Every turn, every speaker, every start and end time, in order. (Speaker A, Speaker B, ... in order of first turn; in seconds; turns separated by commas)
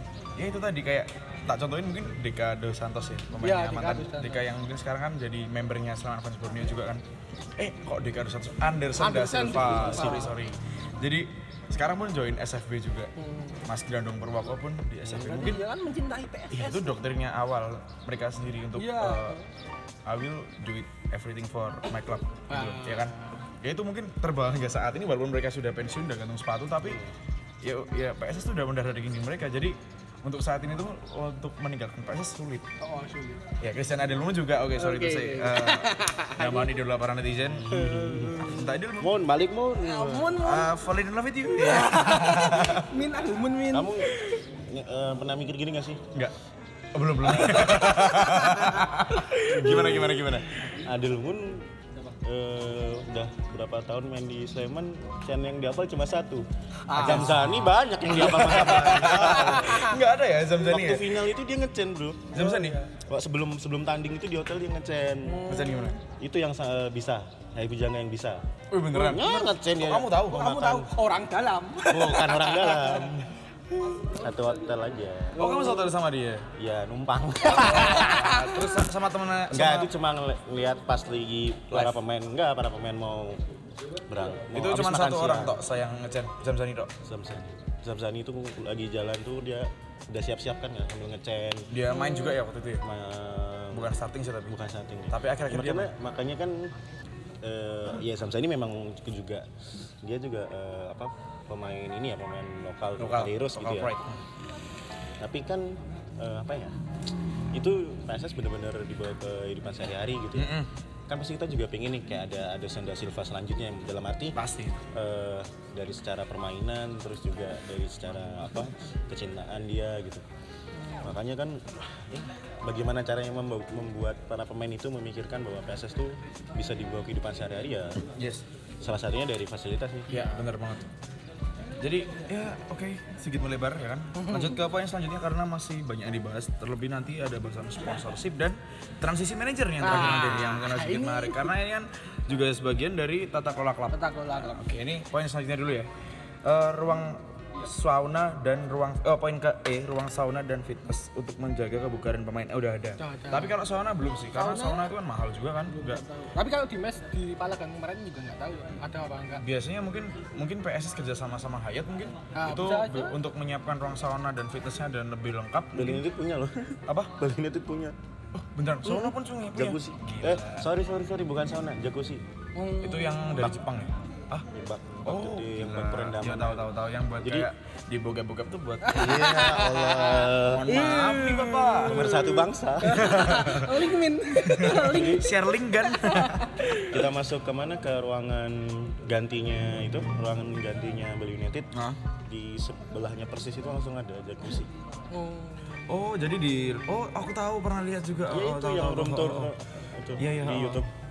Speaker A: 0.4-7.0, Speaker B: 3.4-4.4, Speaker A: 7.6-13.1, Speaker B: 9.0-10.3, Speaker C: 9.6-10.3, Speaker B: 13.2-13.6, Speaker A: 13.7-15.7, Speaker B: 15.1-17.0, Speaker A: 16.5-19.4, Speaker B: 18.8-19.5, Speaker A: 20.1-27.0, Speaker B: 22.5-23.4, Speaker C: 26.8-27.1, Speaker A: 27.6-32.7, Speaker B: 32.8-33.5, Speaker A: 33.6-37.8, Speaker B: 34.8-36.7, Speaker C: 37.5-40.4, Speaker B: 37.7-38.7, Speaker A: 38.4-39.2, Speaker B: 39.8-40.7, Speaker A: 40.4-42.9, Speaker B: 41.6-44.2, Speaker C: 43.7-46.1, Speaker A: 46.9-50.5, Speaker C: 47.4-47.7, Speaker B: 48.2-48.8, Speaker C: 49.4-51.7, Speaker C: 52.2-56.5, Speaker B: 56.9-57.5, Speaker A: 56.9-61.2, Speaker C: 57.0-60.0, Speaker B: 59.0-60.0, Speaker C: 60.5-62.4, Speaker A: 62.3-62.8, Speaker B: 62.3-62.9, Speaker C: 63.0-65.4, Speaker B: 65.2-66.0, Speaker A: 65.5-66.0, Speaker C: 66.1-70.9, Speaker A: 68.7-70.5, Speaker B: 69.0-69.5, Speaker B: 70.3-73.2, Speaker C: 71.9-73.3, Speaker C: 74.0-75.4, Speaker B: 75.3-75.9, Speaker A: 75.4-76.5, Speaker C: 76.6-78.3, Speaker B: 77.5-78.7, Speaker A: 77.6-79.9, Speaker C: 79.5-83.4, Speaker A: 81.7-82.0, Speaker C: 84.1-85.6, Speaker A: 84.5-86.9, Speaker C: 87.0-91.7, Speaker A: 91.7-92.8, Speaker B: 91.9-92.4, Speaker C: 92.8-94.0, Speaker A: 93.7-94.6, Speaker C: 94.5-96.7, Speaker A: 95.1-95.9, Speaker C: 97.4-103.9, Speaker A: 103.0-104.2, Speaker C: 105.2-106.8, Speaker C: 107.5-114.4, Speaker A: 110.3-110.7, Speaker A: 114.3-114.8, Speaker C: 114.9-120.2, Speaker B: 120.8-121.1, Speaker C: 121.0-128.0, Speaker A: 128.1-128.4, Speaker C: 128.8-130.1, Speaker B: 130.1-130.5, Speaker A: 130.1-130.9, Speaker A: 131.8-145.9, Speaker B: 134.2-134.6, Speaker B: 139.8-141.5, Speaker B: 143.9-144.7, Speaker A: 146.4-156.0, Speaker B: 153.0-153.6, Speaker B: 154.3-154.9, Speaker B: 155.7-159.4, Speaker A: 159.4-166.0, Speaker B: 162.3-163.2, Speaker C: 165.7-167.9, Speaker A: 166.9-167.2, Speaker A: 168.3-170.7, Speaker C: 168.8-172.2, Speaker B: 172.6-173.5, Speaker A: 172.8-174.5, Speaker C: 174.5-176.7, Speaker A: 175.1-179.2, Speaker C: 177.2-177.5, Speaker B: 178.8-185.3, Speaker C: 178.9-181.1, Speaker A: 180.4-182.2, Speaker C: 181.8-183.5, Speaker A: 182.9-183.8, Speaker A: 184.4-187.1, Speaker C: 184.7-185.3, Speaker B: 185.8-186.7, Speaker C: 186.9-191.7, Speaker A: 191.7-192.0, Speaker C: 192.2-194.7, Speaker B: 195.1-195.9, Speaker A: 195.9-199.5, Speaker C: 198.3-200.9, Speaker A: 200.2-200.9